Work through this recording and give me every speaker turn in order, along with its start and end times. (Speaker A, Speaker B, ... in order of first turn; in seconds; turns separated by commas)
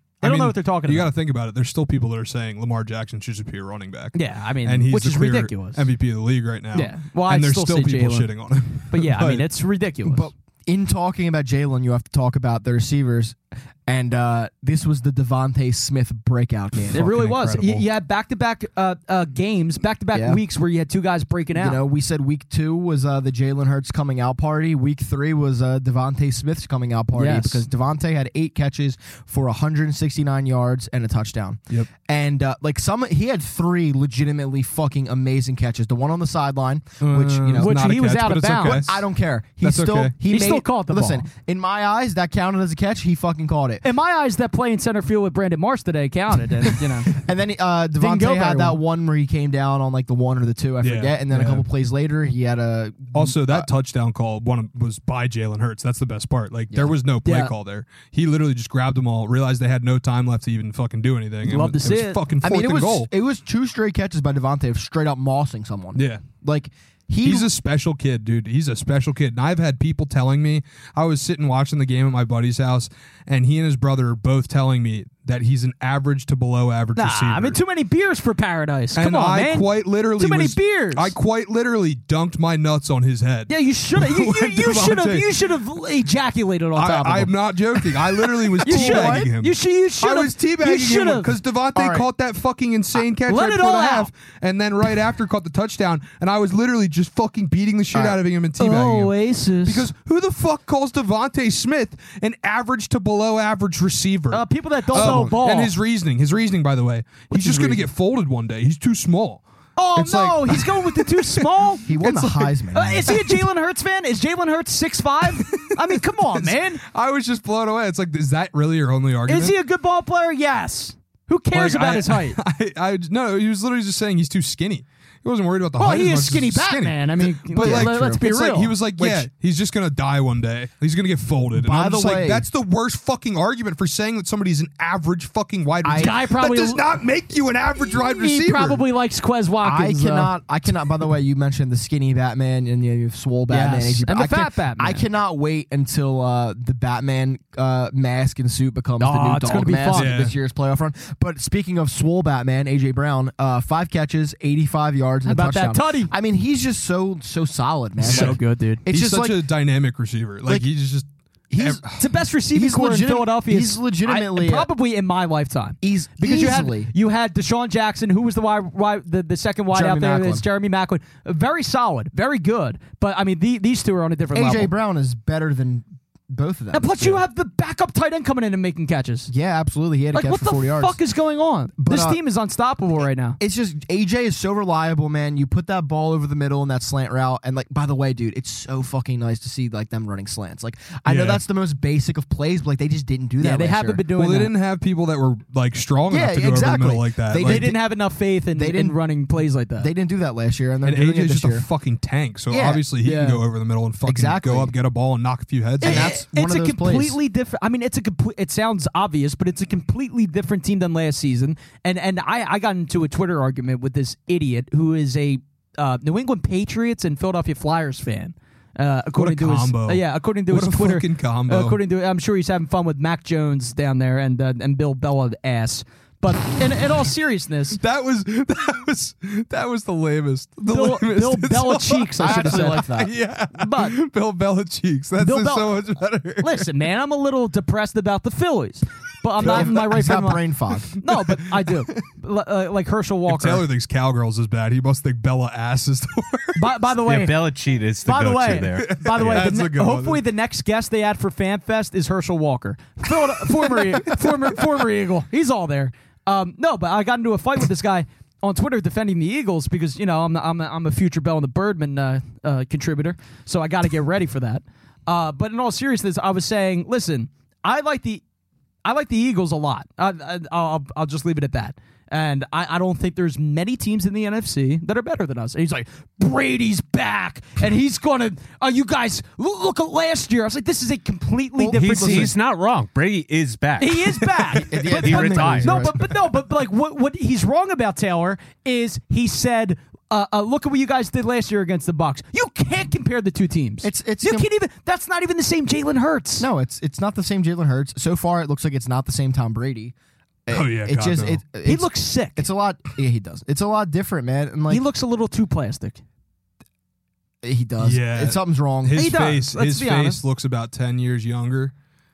Speaker A: 0.2-1.1, Speaker B: 0.2-9.4, Speaker A: 4.1-5.8, Speaker A: 6.7-8.3, Speaker A: 8.9-10.3, Speaker C: 10.0-17.1, Speaker B: 16.8-17.9, Speaker A: 16.9-21.8, Speaker C: 20.1-20.4, Speaker C: 21.5-37.7, Speaker A: 27.1-27.6, Speaker B: 37.0-39.0, Speaker A: 37.6-38.8, Speaker C: 38.6-43.8, Speaker B: 39.6-40.1, Speaker A: 40.3-41.3, Speaker A: 43.8-47.1, Speaker C: 47.1-53.7, Speaker A: 48.0-48.8, Speaker B: 50.8-51.6, Speaker B: 53.1-63.1, Speaker A: 57.2-57.5, Speaker A: 61.5-62.2, Speaker C: 62.4-67.5, Speaker B: 65.9-66.2, Speaker B: 67.2-77.6, Speaker A: 77.0-81.1, Speaker B: 79.0-85.4, Speaker A: 83.5-91.3, Speaker B: 86.8-99.1, Speaker C: 88.6-89.3, Speaker C: 91.7-92.1, Speaker A: 93.2-94.1, Speaker C: 97.9-98.2, Speaker A: 98.6-99.9, Speaker B: 99.6-109.4, Speaker A: 104.3-105.7, Speaker C: 104.9-105.4, Speaker C: 107.4-107.8, Speaker A: 109.8-111.9, Speaker B: 110.0-112.5, Speaker C: 111.9-113.2, Speaker A: 112.7-116.8, Speaker B: 115.4-119.5, Speaker A: 119.3-122.4, Speaker B: 121.5-138.8, Speaker A: 125.8-129.2, Speaker C: 127.6-128.2, Speaker C: 131.5-132.4, Speaker C: 135.8-136.1, Speaker A: 135.9-136.9, Speaker A: 137.8-140.3, Speaker C: 139.6-159.4, Speaker A: 143.5-145.0, Speaker A: 149.0-150.1, Speaker B: 149.9-150.3, Speaker A: 155.2-156.1, Speaker A: 158.0-158.8, Speaker B: 158.0-161.1, Speaker C: 161.5-161.9, Speaker B: 161.6-162.1, Speaker A: 162.0-174.7, Speaker C: 162.5-164.7, Speaker C: 165.8-166.9, Speaker C: 169.7-170.4, Speaker C: 174.3-177.2, Speaker A: 176.7-179.3, Speaker C: 179.3-181.0, Speaker A: 180.1-183.4, Speaker C: 181.8-182.2, Speaker C: 183.4-194.0, Speaker B: 191.1-191.4, Speaker A: 193.4-194.5, Speaker B: 194.2-197.7, Speaker C: 196.1-197.8, Speaker A: 197.4-199.9, Speaker C: 198.5-199.0, Speaker C: 199.8-201.7, Speaker B: 200.8-206.1, Speaker C: 202.5-202.8, Speaker A: 203.0-203.4, Speaker C: 204.0-204.7, Speaker C: 205.8-207.2, Speaker A: 205.8-227.8, Speaker B: 219.2-221.8, Speaker B: 227.8-236.7, Speaker A: 230.7-232.8, Speaker C: 232.2-233.1, Speaker A: 233.5-233.9, Speaker A: 235.2-235.8, Speaker A: 236.4-240.4, Speaker C: 239.4-240.9, Speaker A: 241.0-243.6, Speaker B: 241.1-242.0, Speaker B: 243.3-246.7, Speaker A: 246.5-247.4, Speaker D: 246.9-249.4, Speaker A: 248.0-268.2, Speaker B: 248.7-250.2, Speaker B: 253.3-254.2, Speaker A: 268.8-282.4, Speaker C: 281.6-282.3, Speaker D: 281.8-284.2, Speaker A: 283.8-296.4, Speaker C: 284.6-285.9, Speaker D: 284.9-285.9, Speaker C: 293.8-294.5, Speaker C: 296.4-299.9, Speaker C: 300.4-304.8, Speaker B: 300.5-301.4, Speaker A: 301.6-302.4, Speaker A: 304.7-306.0, Speaker C: 307.4-309.1, Speaker B: 307.8-311.7, Speaker A: 308.9-310.2